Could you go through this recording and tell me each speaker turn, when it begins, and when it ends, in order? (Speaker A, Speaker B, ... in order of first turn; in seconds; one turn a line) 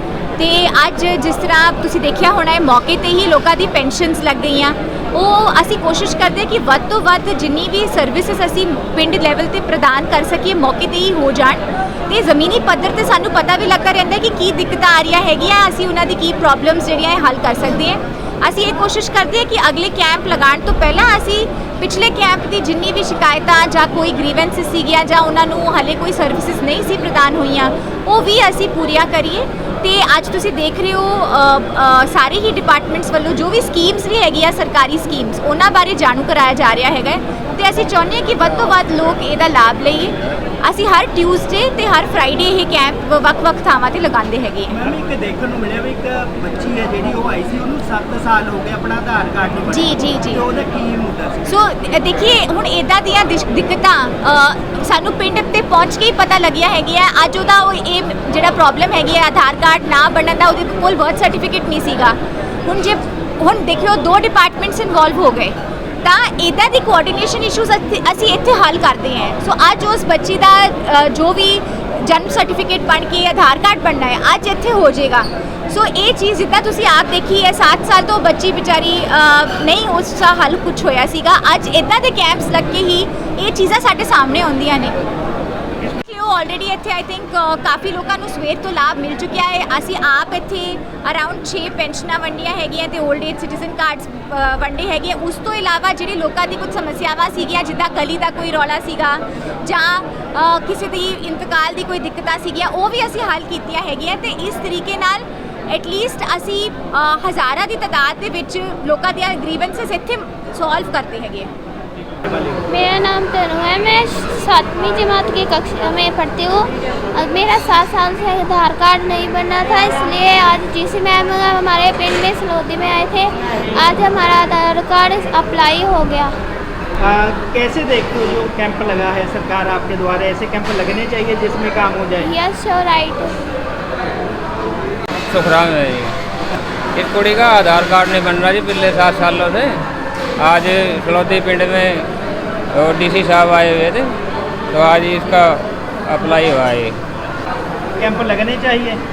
Speaker A: 0.4-44.8
Speaker B: 44.7-51.5
Speaker A: 49.7-50.4
Speaker A: 51.5-85.0
Speaker A: 86.0-111.5
Speaker B: 112.2-112.6
Speaker C: 112.7-126.3
Speaker B: 127.0-132.3
Speaker C: 132.2-133.3
Speaker D: 135.2-136.1
Speaker D: 136.9-139.8
Speaker D: 140.4-142.1
Speaker D: 142.7-144.1
Speaker D: 144.7-147.0
Speaker B: 148.0-149.0